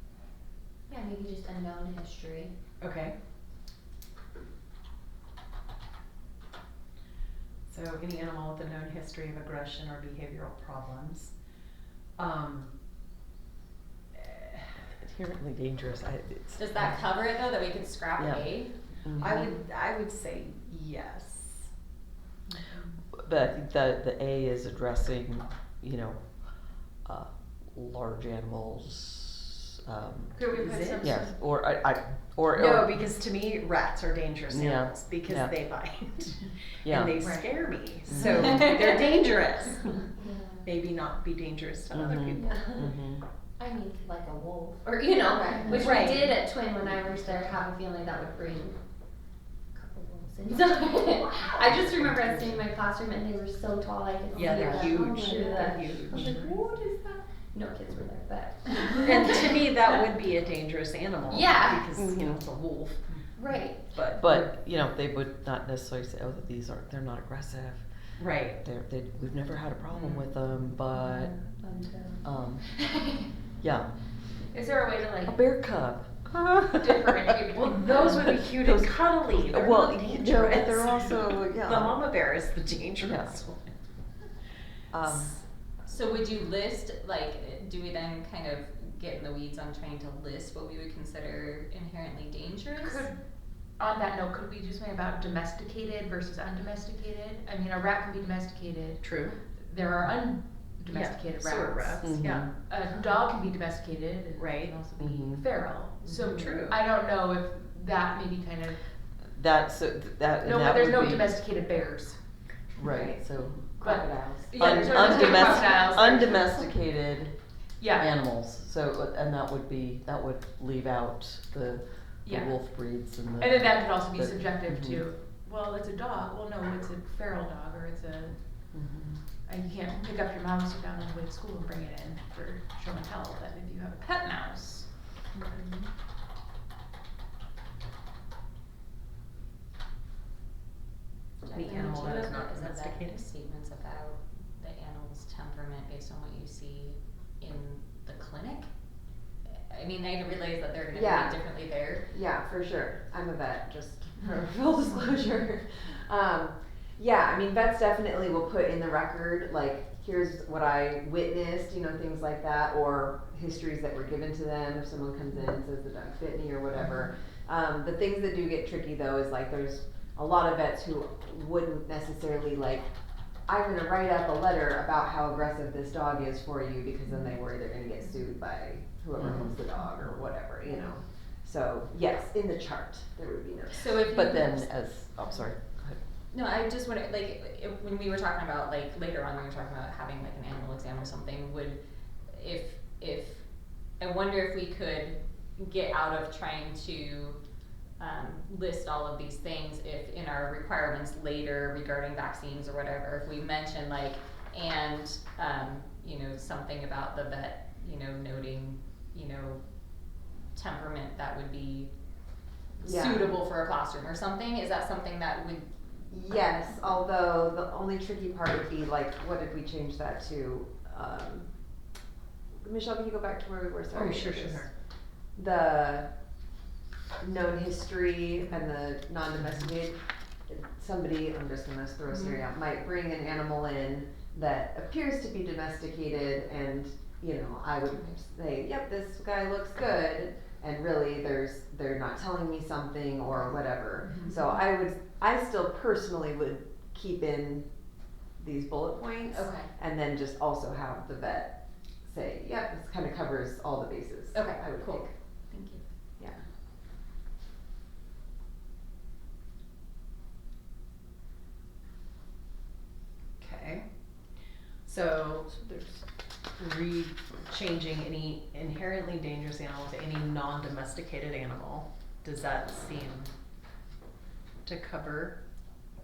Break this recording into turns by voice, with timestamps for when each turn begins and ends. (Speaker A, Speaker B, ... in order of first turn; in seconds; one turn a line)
Speaker A: 0.9-2.5
Speaker B: 2.8-3.1
Speaker B: 7.7-11.3
Speaker B: 12.2-12.7
Speaker B: 14.1-14.7
Speaker C: 15.0-17.1
Speaker D: 16.6-18.7
Speaker C: 18.2-18.4
Speaker C: 19.0-19.6
Speaker B: 19.2-21.7
Speaker C: 23.2-26.2
Speaker C: 27.0-33.1
Speaker E: 30.3-31.4
Speaker B: 30.6-31.1
Speaker B: 32.5-40.0
Speaker C: 34.5-35.6
Speaker C: 36.9-37.2
Speaker E: 37.2-37.5
Speaker C: 38.1-38.7
Speaker A: 38.2-39.1
Speaker A: 40.1-40.8
Speaker B: 40.6-42.6
Speaker C: 41.9-43.2
Speaker A: 42.3-42.9
Speaker A: 43.6-48.8
Speaker B: 45.7-46.3
Speaker A: 49.7-59.7
Speaker B: 54.3-56.4
Speaker B: 59.0-64.3
Speaker A: 61.3-62.0
Speaker C: 62.0-62.4
Speaker A: 63.4-64.0
Speaker C: 64.2-67.8
Speaker B: 68.2-68.6
Speaker C: 68.6-71.3
Speaker A: 71.0-73.2
Speaker C: 72.2-72.7
Speaker C: 73.6-73.9
Speaker E: 74.5-75.4
Speaker C: 75.2-77.1
Speaker E: 76.6-78.0
Speaker B: 77.5-83.6
Speaker C: 78.2-82.1
Speaker C: 83.0-83.4
Speaker C: 84.9-85.4
Speaker D: 85.8-93.1
Speaker E: 92.8-93.1
Speaker E: 93.8-108.8
Speaker B: 99.0-99.4
Speaker B: 100.9-102.5
Speaker C: 102.0-102.5
Speaker B: 104.4-104.8
Speaker C: 105.0-105.4
Speaker B: 106.3-106.8
Speaker C: 109.3-111.3
Speaker E: 110.4-112.2
Speaker C: 112.8-114.0
Speaker E: 112.9-113.1
Speaker E: 113.8-116.7
Speaker F: 113.8-114.5
Speaker C: 114.5-117.4
Speaker D: 114.9-115.5
Speaker E: 117.8-118.1
Speaker C: 117.9-125.0
Speaker E: 122.2-122.5
Speaker E: 123.4-128.4
Speaker C: 128.7-129.2
Speaker E: 129.4-134.9
Speaker B: 141.4-143.2
Speaker D: 141.5-148.7
Speaker D: 149.4-152.0
Speaker F: 150.9-151.4
Speaker F: 152.1-172.9
Speaker F: 173.5-184.1
Speaker D: 179.2-179.5
Speaker D: 183.7-184.7
Speaker C: 184.1-186.0
Speaker D: 186.3-191.8
Speaker D: 192.3-193.4
Speaker D: 194.0-197.4
Speaker D: 198.0-209.6
Speaker D: 210.5-211.9
Speaker D: 212.8-215.7
Speaker F: 212.8-213.4
Speaker F: 216.1-221.5
Speaker F: 222.6-224.7
Speaker B: 223.9-224.7
Speaker F: 225.3-226.1
Speaker F: 227.2-247.7
Speaker D: 244.0-244.5
Speaker F: 248.4-255.1
Speaker D: 249.3-249.7
Speaker D: 254.3-255.8
Speaker B: 263.4-263.9
Speaker B: 264.8-265.7
Speaker B: 266.6-273.3
Speaker B: 274.6-275.4